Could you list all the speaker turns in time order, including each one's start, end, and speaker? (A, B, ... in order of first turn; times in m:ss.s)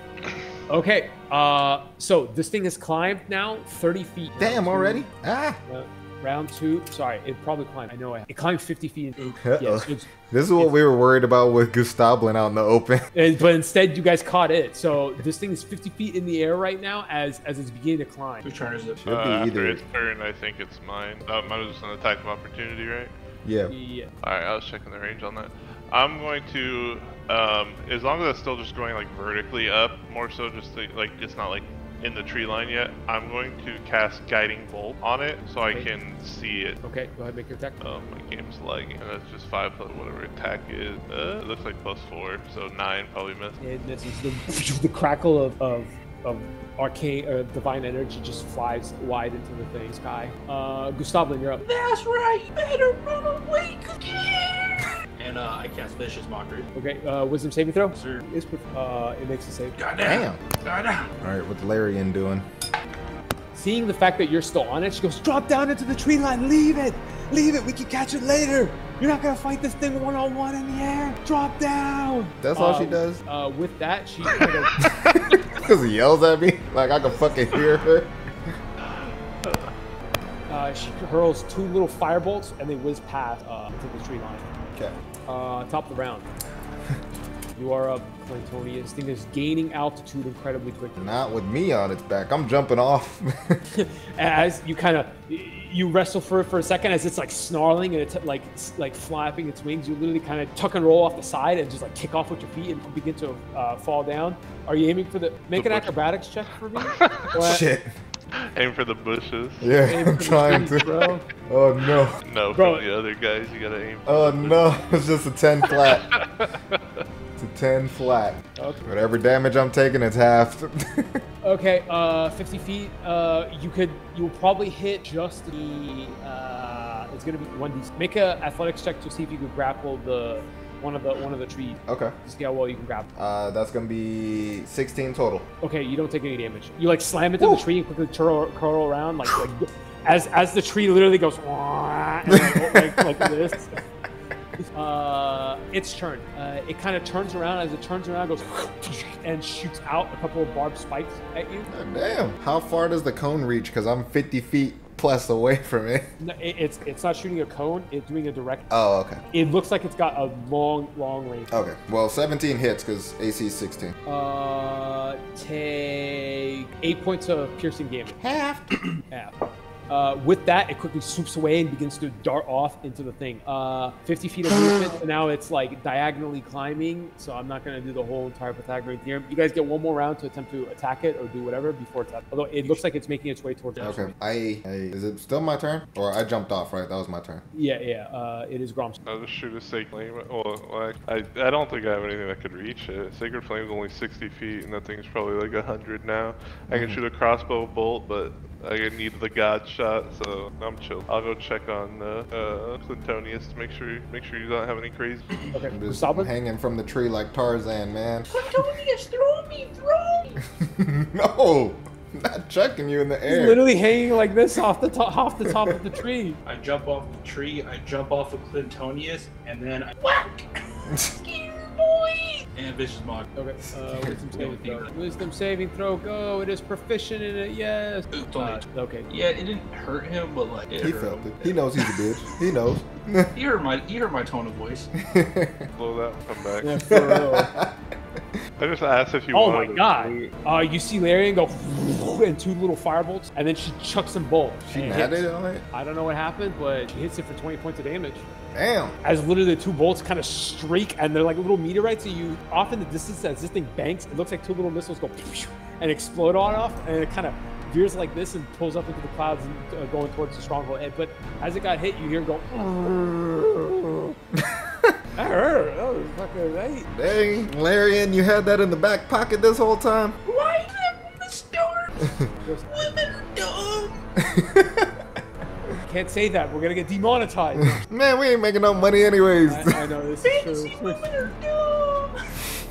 0:00.7-0:05.1 A
0:04.4-0:05.6 B
0:05.7-0:10.7 A
0:09.4-0:13.1 B
0:13.1-0:18.5 A
0:18.4-0:19.0 C
0:19.0-0:19.8 B
0:19.1-0:23.1 D
0:23.4-0:23.7 B
0:23.7-0:24.1 A
0:24.2-0:36.8 D
0:36.8-0:37.8 A
0:37.8-0:43.6 D
0:43.6-0:51.6 A
0:51.6-0:55.0 E
0:55.2-0:56.7 C
0:56.8-0:59.8 A
0:57.9-0:58.2 C
0:59.8-1:01.2 C
1:00.0-1:00.4 B
1:01.2-1:02.5 B
1:03.5-1:14.8 A
1:12.4-1:13.2 B
1:14.8-1:18.5 B
1:20.5-1:24.5 A
1:25.3-1:26.3 A
1:27.6-1:31.1 A
1:31.0-1:33.6 B
1:33.7-1:47.6 A
1:45.6-1:45.9 D
1:46.8-1:47.3 D
1:47.4-1:48.0 B
1:48.4-1:49.7 D
1:49.6-1:50.9 B
1:49.9-1:51.2 A
1:51.5-1:52.2 B
1:52.2-1:54.8 D
1:52.6-1:52.8 A
1:54.1-1:56.1 B
1:55.7-1:57.0 D
1:57.4-2:01.2 B
1:58.6-1:58.9 A
2:01.4-2:13.1 A
2:11.9-2:12.2 B
2:13.2-2:15.5 B
2:15.6-2:23.8 A
2:22.3-2:23.4 B
2:24.7-2:31.7 A
2:31.7-2:36.0 B
2:36.2-2:38.7 A
2:38.7-2:39.2 B
2:39.3-2:41.5 A
2:41.5-2:44.0 B
2:44.1-2:48.2 A
2:48.2-2:48.7 B
2:49.1-2:49.4 A
2:49.9-3:04.1 A
3:03.8-3:07.4 B
3:07.5-3:09.0 A
3:09.0-3:25.4 D
3:16.7-3:17.0 B
3:25.5-3:26.3 A
3:25.7-3:28.3 B
3:28.3-3:30.4 E
3:30.4-3:33.6 B
3:33.2-3:36.4 A
3:35.4-3:35.8 B
3:36.5-3:39.9 C
3:40.0-3:42.5 E
3:40.9-3:41.1 B
3:42.6-3:43.3 C
3:43.4-3:49.1 A
3:43.7-3:44.4 B
3:44.3-3:44.9 C
3:48.1-3:51.6 C
3:50.7-3:53.3 B
3:53.4-3:54.9 C
3:55.0-3:55.7 B
3:55.7-3:56.8 D
3:56.6-3:57.5 A
3:56.9-3:57.7 B
3:58.6-4:00.3 D
3:59.3-4:08.3 A
4:04.7-4:05.6 B
4:08.5-4:09.0 B
4:09.0-4:24.2 A
4:24.4-4:25.0 B
4:25.2-4:26.9 A
4:26.9-4:30.2 B
4:30.2-4:32.1 E
4:32.4-4:32.8 A
4:32.7-4:34.2 E
4:34.2-4:34.9 B
4:35.8-4:37.8 A
4:37.6-4:39.8 B
4:39.5-4:41.0 A
4:40.2-4:42.3 E